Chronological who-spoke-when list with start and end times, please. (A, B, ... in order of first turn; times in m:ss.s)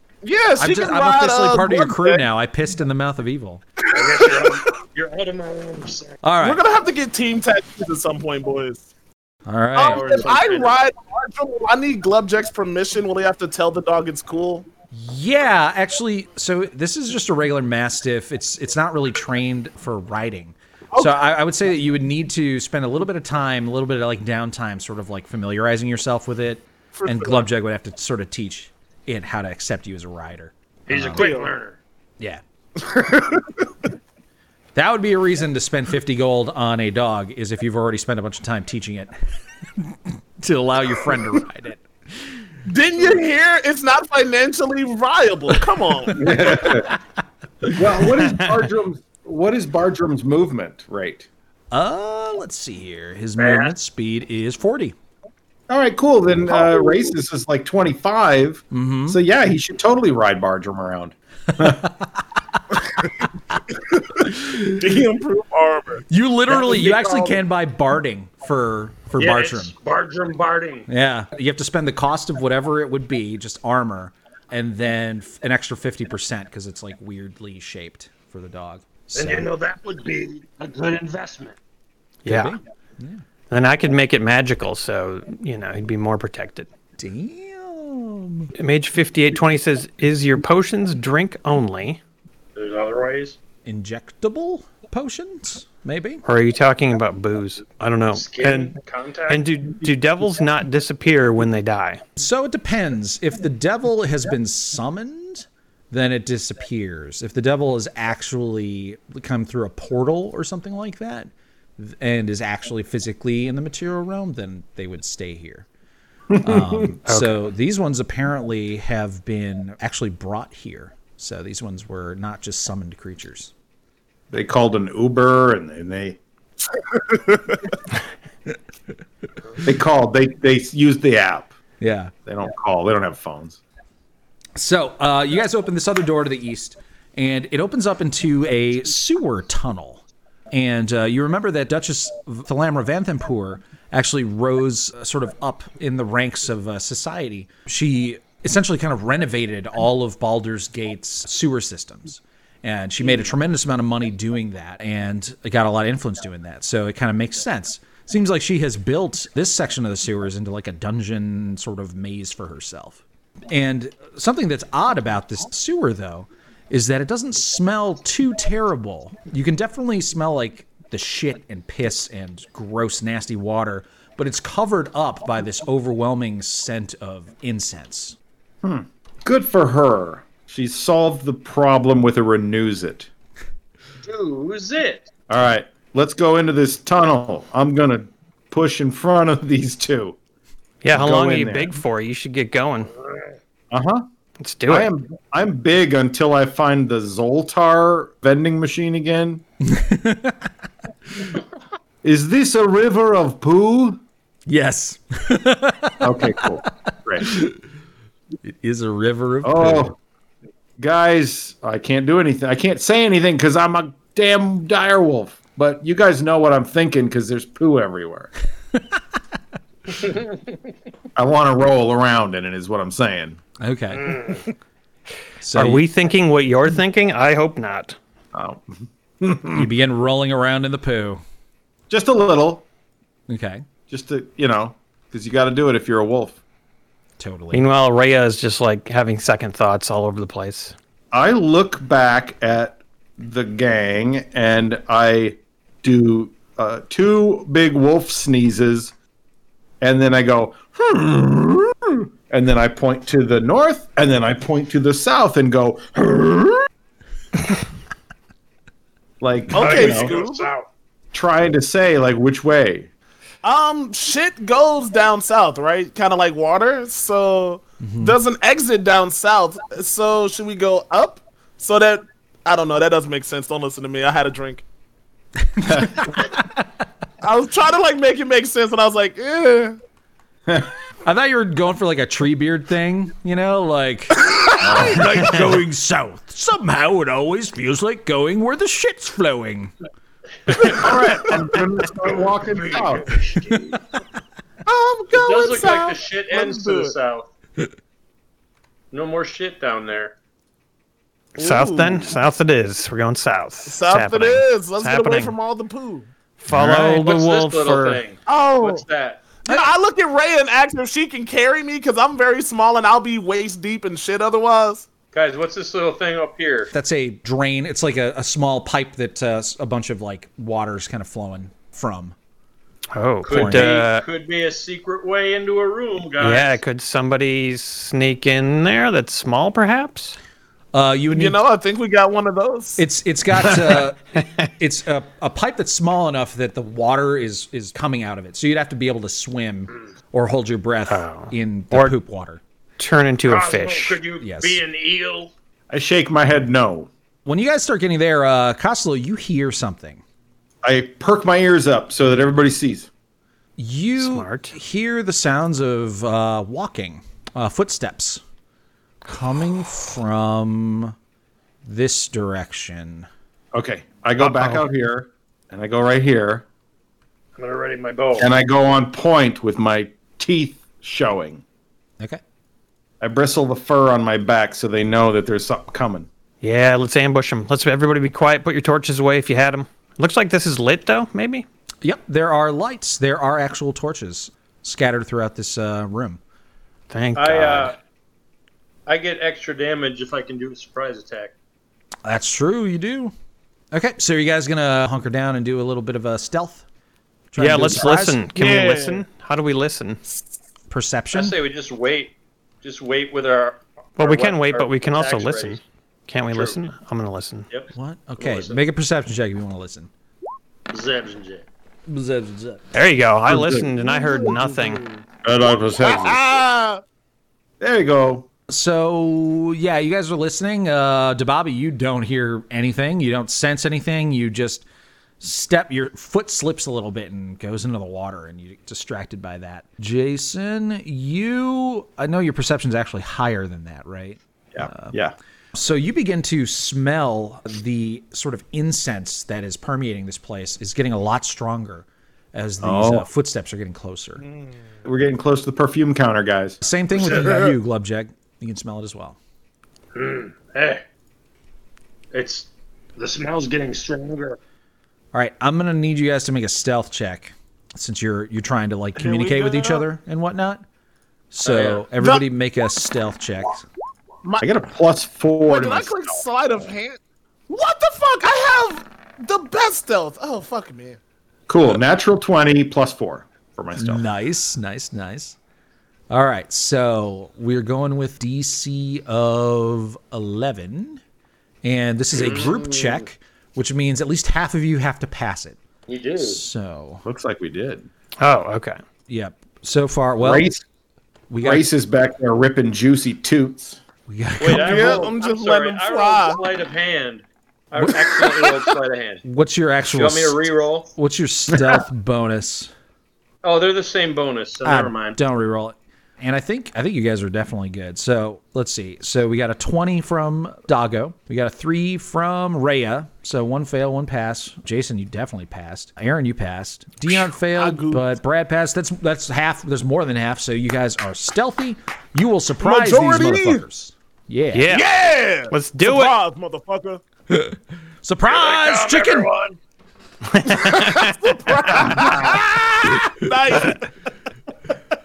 0:00.2-0:02.2 A
0:00.6-0:03.6 B
0:03.9-0:04.5 A
0:03.9-0:06.2 C
0:06.2-0:06.6 B
0:06.4-0:08.9 A
0:09.5-0:10.1 B
0:09.7-0:14.7 A
0:09.9-0:10.7 C
0:14.9-0:31.3 B
0:26.9-0:27.4 A
0:30.9-0:31.8 C
0:31.1-0:31.5 A
0:32.8-0:33.5 A
0:34.7-0:39.1 B
0:39.8-0:42.4 B
0:42.7-0:46.3 A
0:46.1-0:46.9 B
0:46.1-0:46.9 D
0:47.7-0:51.3 D
0:51.7-0:55.0 B
0:53.4-0:53.7 C
0:55.7-1:01.9 D
0:58.7-0:59.2 B
1:04.0-1:07.1 A
1:06.1-1:09.7 B
1:09.2-1:10.9 C
1:10.9-1:19.5 B
1:19.1-1:21.6 C
1:22.2-1:22.6 E
1:22.3-1:23.2 B
1:23.5-1:26.7 E
1:27.0-1:28.5 B
1:28.6-1:32.0 E
1:32.6-1:33.4 C
1:33.6-1:36.2 B
1:36.2-1:38.7 E
1:38.1-1:39.5 C
1:39.3-1:42.0 E
1:42.2-1:55.7 B
1:56.3-1:56.9 D
1:56.4-2:03.5 B
1:57.1-1:57.4 E
2:04.3-2:06.2 D
2:09.6-2:11.5 D
2:11.8-2:12.1 B
2:12.3-2:13.6 D
2:14.6-2:58.2 B
2:58.6-3:03.1 D
3:04.0-3:05.1 C
3:05.3-3:10.2 D
3:10.8-3:12.9 E
3:10.9-3:11.8 D
3:13.7-3:14.0 D
3:14.4-3:14.9 E
3:14.7-3:19.4 D
3:19.6-3:20.5 B
3:22.0-3:24.0 D
3:24.5-3:26.5 B
3:26.0-3:27.3 D
3:27.2-3:27.5 B
3:28.4-3:29.9 B
3:29.4-3:30.0 D
3:30.8-3:38.3 D
3:41.1-3:43.4 D
3:43.6-3:44.4 B
3:45.4-3:45.8 B
3:45.6-3:48.0 E
3:48.3-3:49.7 D
3:49.5-3:51.2 B
3:51.9-3:52.7 D
3:53.3-3:53.7 B
3:53.9-3:56.4 D
3:57.2-3:57.6 B
3:57.5-4:00.8 E
4:01.1-4:08.9 D
4:09.8-4:16.7 D
4:19.2-4:20.1 D
4:19.5-4:20.5 A
4:19.5-4:20.7 C
4:21.1-4:22.9 D
4:23.4-4:34.6 A
4:27.8-4:28.2 B
4:35.5-4:36.6 B
4:37.2-4:39.8 A
4:41.0-4:49.7 B
4:44.6-4:45.2 D
4:50.5-4:51.1 C
4:50.6-4:53.2 D
4:51.8-4:53.8 C
4:54.7-4:57.0 A
4:55.1-4:57.3 C
4:58.9-5:00.1 C
5:01.4-5:02.0 A
5:01.4-5:05.4 E
5:03.7-5:06.1 A
5:06.4-5:08.0 E
5:06.5-5:07.0 B
5:06.7-5:09.3 C
5:08.3-5:08.8 A
5:09.4-5:14.9 A
5:15.1-5:16.7 C
5:16.7-5:22.1 B
5:22.9-5:24.0 E
5:23.3-5:26.6 C
5:23.3-5:23.7 B
5:26.2-5:30.2 E
5:30.7-5:31.4 B
5:31.1-5:32.8 A
5:32.8-5:42.4 B
5:34.2-5:34.4 E
5:40.9-5:41.9 E
5:42.8-5:44.0 E
5:43.3-5:45.3 C
5:44.2-5:44.6 B
5:45.7-5:46.9 D
5:47.2-5:50.0 B
5:50.6-5:52.9 D
5:53.6-5:58.2 B
5:54.0-5:54.6 E
5:59.0-6:01.0 B
6:01.6-6:03.1 B
6:03.5-6:06.4 D
6:04.2-6:04.6 E
6:07.4-6:08.3 C
6:08.2-6:11.4 D
6:13.0-6:16.1 D
6:16.4-6:21.5 E
6:21.8-6:26.2 B
6:26.9-6:27.7 E
6:27.1-6:27.8 C
6:28.9-6:31.3 C
6:32.0-6:33.1 B
6:33.7-6:36.6 B
6:37.3-6:38.3 B
6:37.4-6:40.0 E
6:38.4-6:39.0 A
6:40.7-6:41.3 B
6:41.1-6:45.6 C
6:44.0-6:47.5 E
6:46.3-6:46.6 C
6:47.5-6:48.6 C
6:47.7-6:49.9 B
6:50.7-6:51.5 C
6:51.9-6:52.6 B
6:52.7-6:54.8 E
6:53.3-6:53.7 D
6:53.8-6:55.0 A
6:55.2-6:56.2 D
6:55.8-6:56.8 A
6:57.6-6:58.3 D
6:58.5-7:04.7 B
7:05.2-7:15.0 B
7:14.5-7:15.1 D
7:15.5-7:24.2 B
7:22.6-7:23.1 D
7:24.8-7:26.6 D
7:26.6-7:29.2 B
7:27.0-7:27.4 C
7:30.0-7:30.8 C
7:32.1-7:34.4 C
7:35.1-7:40.6 B
7:39.0-7:39.9 A
7:41.3-7:43.6 B
7:41.4-7:41.8 C
7:42.0-7:42.2 A
7:44.4-7:46.0 D
7:45.5-7:51.0 A
7:51.5-7:54.0 D
7:53.8-7:55.4 B
7:56.1-8:01.0 B
8:01.6-8:05.6 B
8:02.1-8:03.0 C
8:05.9-8:06.4 C
8:06.2-8:07.0 B
8:07.0-8:07.9 D
8:08.2-8:08.8 E
8:09.1-8:10.5 B
8:10.2-8:10.6 D
8:11.3-8:11.7 B
8:11.4-8:13.8 D
8:14.1-8:15.1 B
8:14.4-8:19.2 C
8:14.5-8:16.4 A
8:19.2-8:20.4 B
8:19.9-8:20.9 C
8:21.0-8:22.7 B
8:21.5-8:21.8 D
8:23.4-8:25.2 C
8:24.6-8:44.7 B
8:37.1-8:38.0 A
8:42.6-8:43.6 A
8:44.5-8:44.9 E
8:44.7-8:47.0 A
8:45.5-8:46.1 E
8:47.3-8:49.3 B
8:48.3-8:49.6 C
8:50.3-8:51.2 E
8:50.4-8:53.8 A
8:51.8-8:52.4 B